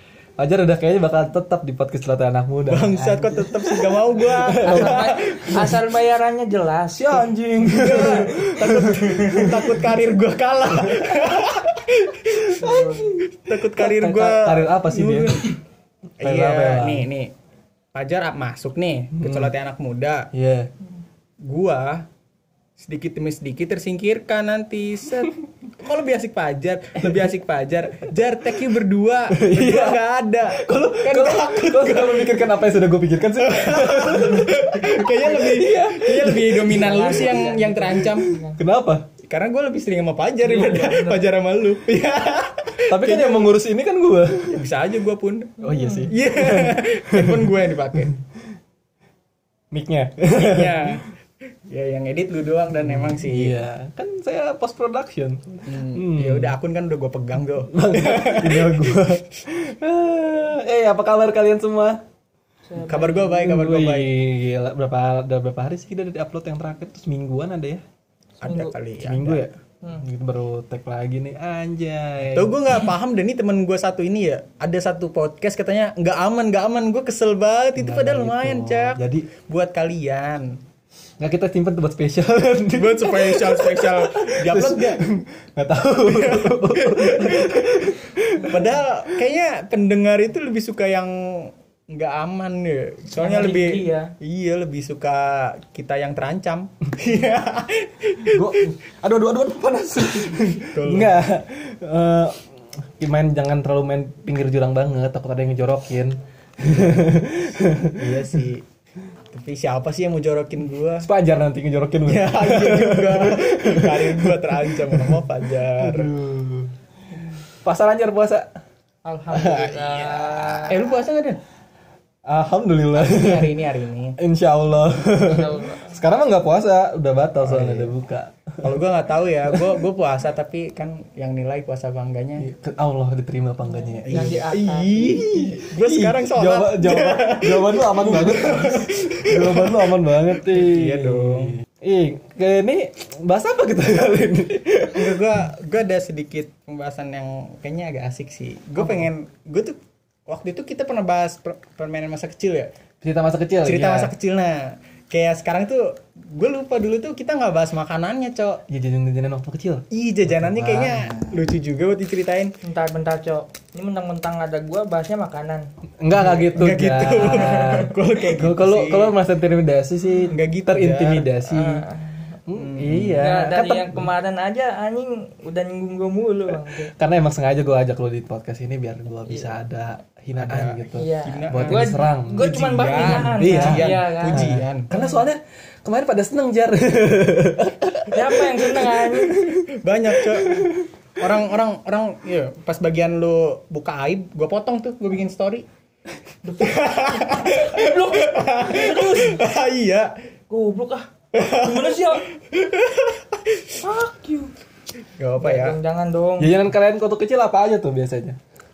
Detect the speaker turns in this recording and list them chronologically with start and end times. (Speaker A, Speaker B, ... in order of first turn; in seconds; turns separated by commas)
Speaker A: 0.4-5.8, Speaker B: 2.7-5.6, Speaker C: 4.6-7.3, Speaker A: 7.0-9.9, Speaker B: 7.7-15.5, Speaker A: 10.7-11.4, Speaker A: 12.3-15.4, Speaker C: 12.6-13.1, Speaker A: 16.2-17.1, Speaker B: 16.2-17.3, Speaker B: 17.9-20.3, Speaker A: 19.1-19.5, Speaker A: 20.3-20.7, Speaker B: 21.4-22.1, Speaker B: 22.8-32.6, Speaker A: 29.3-37.2, Speaker B: 33.4-38.3, Speaker C: 36.6-38.6, Speaker A: 38.1-39.1, Speaker B: 39.2-43.5, Speaker C: 40.4-41.3, Speaker A: 42.9-44.7, Speaker B: 44.5-48.2, Speaker A: 45.6-48.5, Speaker C: 45.6-46.1, Speaker A: 49.7-51.0, Speaker B: 50.3-51.0, Speaker B: 51.7-53.6, Speaker A: 52.7-56.5, Speaker B: 55.6-59.2, Speaker A: 57.7-62.0, Speaker C: 62.7-63.4, Speaker B: 62.8-64.1, Speaker A: 63.4-67.8, Speaker C: 68.4-68.7, Speaker B: 68.4-69.4, Speaker A: 69.0-72.7, Speaker B: 72.2-80.5, Speaker A: 77.8-79.3, Speaker A: 81.2-88.7, Speaker B: 82.7-85.1, Speaker B: 86.0-98.7, Speaker C: 88.4-88.8, Speaker C: 93.2-94.1, Speaker A: 98.3-108.4, Speaker B: 100.3-101.2, Speaker B: 106.6-107.2, Speaker B: 107.9-108.7, Speaker B: 109.3-111.1, Speaker A: 111.0-116.8, Speaker B: 112.0-116.1, Speaker A: 117.6-118.6, Speaker C: 119.0-121.0, Speaker B: 119.5-121.4, Speaker A: 122.2-123.6, Speaker B: 122.9-124.2, Speaker A: 124.2-128.8, Speaker C: 125.2-126.0, Speaker B: 127.4-127.9, Speaker B: 128.6-132.5, Speaker A: 129.4-129.8, Speaker A: 132.4-145.4, Speaker C: 133.7-135.2, Speaker B: 134.0-141.6, Speaker B: 144.9-149.8, Speaker B: 150.3-152.7, Speaker A: 153.0-154.1, Speaker B: 153.6-158.6, Speaker A: 158.7-161.4, Speaker B: 159.9-162.5, Speaker C: 162.6-165.7, Speaker A: 166.0-171.8, Speaker B: 166.1-169.2, Speaker B: 170.3-171.4, Speaker C: 171.5-172.4, Speaker A: 172.5-174.1, Speaker B: 172.5-173.3, Speaker C: 173.2-176.9, Speaker A: 176.9-189.6, Speaker C: 179.2-179.6, Speaker B: 180.4-184.9, Speaker C: 180.9-185.2, Speaker C: 188.1-189.6, Speaker B: 189.8-195.7, Speaker A: 190.2-190.9, Speaker C: 196.4-199.4, Speaker B: 196.6-200.1, Speaker C: 200.5-202.2, Speaker B: 201.3-203.7, Speaker C: 203.8-204.5, Speaker B: 205.2-205.8, Speaker C: 205.4-206.7, Speaker A: 206.4-208.4